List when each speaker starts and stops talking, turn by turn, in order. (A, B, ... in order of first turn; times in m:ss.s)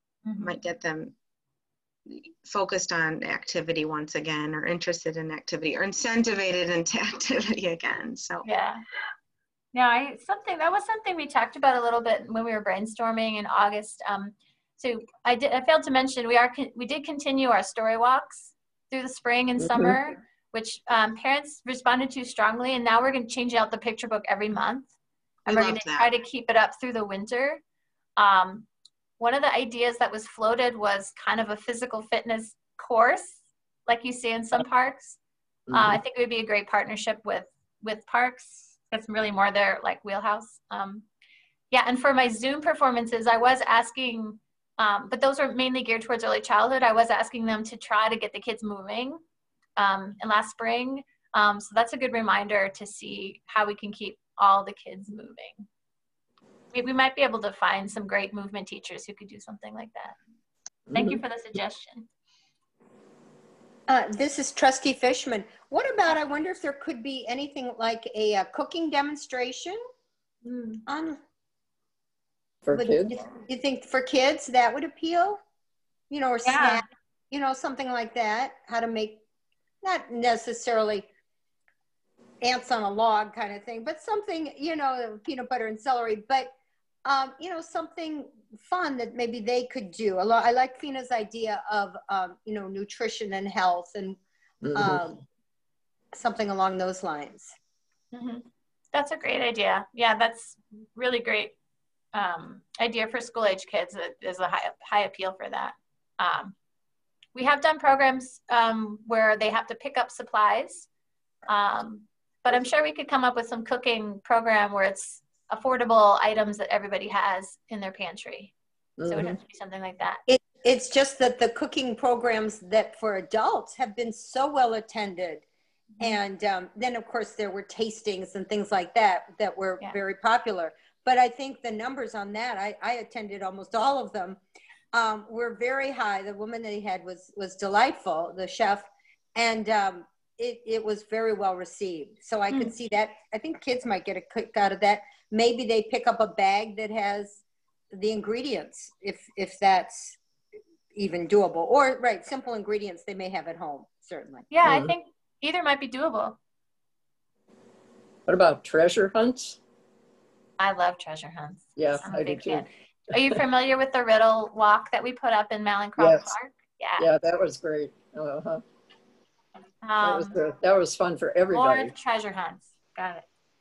0:00.2-0:00.6 A
0:00.4-0:01.1 B
0:02.1-0:08.4 B
0:08.4-0:08.8 A
0:09.7-0:24.9 A
0:19.6-0:20.0 C
0:25.4-0:27.6 A
0:25.5-0:26.1 B
0:28.2-0:28.7 A
0:29.2-0:35.2 A
0:35.7-0:36.0 C
0:35.7-0:41.0 A
0:41.7-0:49.2 A
0:49.8-0:55.6 A
0:56.7-1:00.2 A
1:00.9-1:02.1 A
1:00.9-1:01.2 C
1:03.9-1:09.8 D
1:10.9-1:11.2 D
1:12.6-1:13.2 C
1:12.7-1:15.4 D
1:16.1-1:19.2 D
1:16.4-1:16.8 A
1:19.8-1:21.1 D
1:22.4-1:26.5 D
1:27.0-1:34.2 D
1:34.6-1:35.0 C
1:34.7-1:35.2 D
1:36.1-1:37.5 D
1:38.1-1:41.5 A
1:42.1-1:46.5 A
1:47.3-1:50.9 A
1:51.5-1:58.5 A
1:59.0-1:59.4 C
1:59.1-2:00.2 A
2:00.3-2:05.4 D
2:06.0-2:14.4 D
2:14.9-2:27.4 D
2:27.9-2:30.1 D
2:30.9-2:34.4 D
2:34.5-2:36.4 A
2:34.6-2:34.9 C
2:38.3-2:39.6 C
2:40.6-2:47.1 A
2:41.8-2:42.6 C
2:46.0-2:46.3 C
2:47.0-2:48.6 C
2:49.8-2:50.4 A
2:50.0-2:51.9 C
2:51.5-2:53.2 A